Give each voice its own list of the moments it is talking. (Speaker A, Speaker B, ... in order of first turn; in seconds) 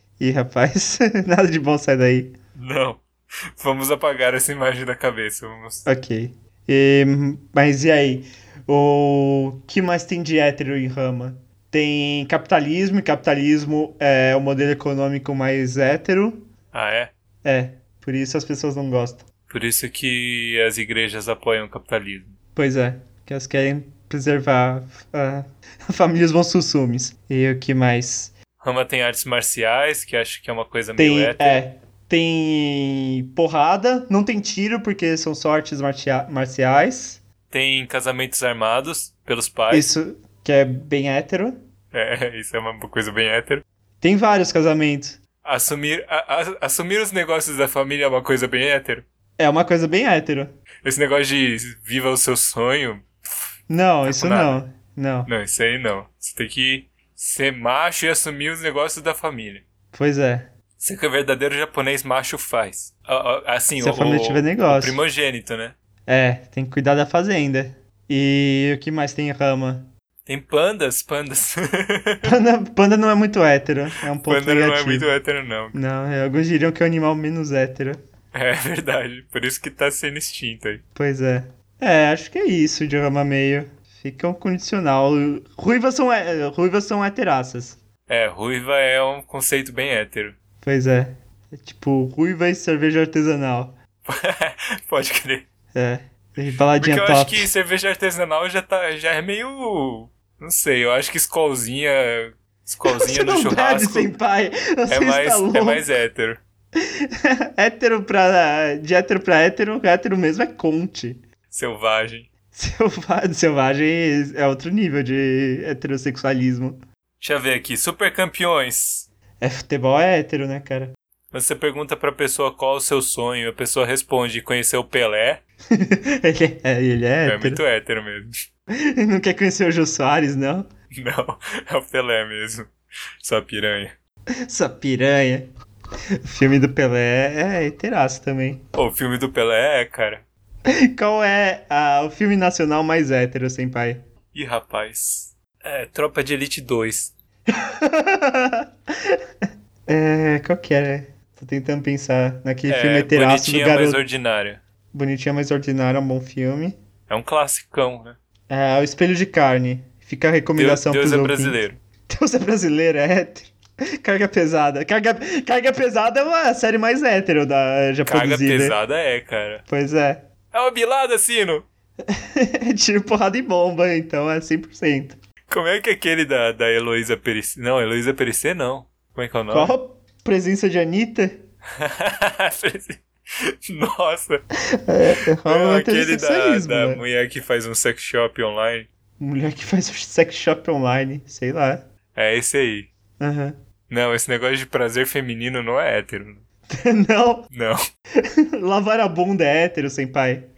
Speaker A: 0.2-2.4, 5.8-16.5, 17.4-19.2, 22.5-28.3, 31.0-37.2, 39.7-41.6, 44.0-45.2, 49.4-50.5, 53.7-55.3, 59.9-60.5, 63.8-65.0, 66.1-69.9, 72.2-75.1, 75.7-78.0, 80.9-87.8, 90.6-93.8, 95.7-97.5, 102.8-105.9, 106.8-111.2, 112.5-116.8, 119.4-120.9, 125.7-127.6, 128.8-130.7, 134.4-135.5, 136.2-138.6, 140.7-144.0, 147.5-149.2, 149.9-154.0, 154.9-156.8, 158.5-168.8, 169.7-170.2, 172.1-175.2, 179.5-181.4, 184.8-187.0, 189.2-191.8, 193.2-193.6, 196.7-197.5, 198.2-200.4
Speaker B: 2.5-5.8, 16.7-17.1, 19.5-22.3, 28.6-31.6, 37.5-39.9, 41.9-43.6, 45.4-49.0, 50.8-53.5, 54.0-54.6, 55.3-59.6, 60.8-65.7, 70.2-72.3, 74.2-75.8, 78.3-80.8, 88.1-90.3, 94.0-95.4, 96.8-104.1, 104.9-106.4, 111.5-112.3, 117.2-119.1, 121.3-125.4, 127.2-128.3, 130.9-133.9, 138.7-140.2, 144.3-147.1, 152.7-154.6, 157.1-158.2, 160.6-161.8, 168.1-169.6, 170.5-171.6, 175.5-179.7, 181.8-184.4, 185.4-188.9, 192.1-192.9, 193.9-196.4, 197.5-197.8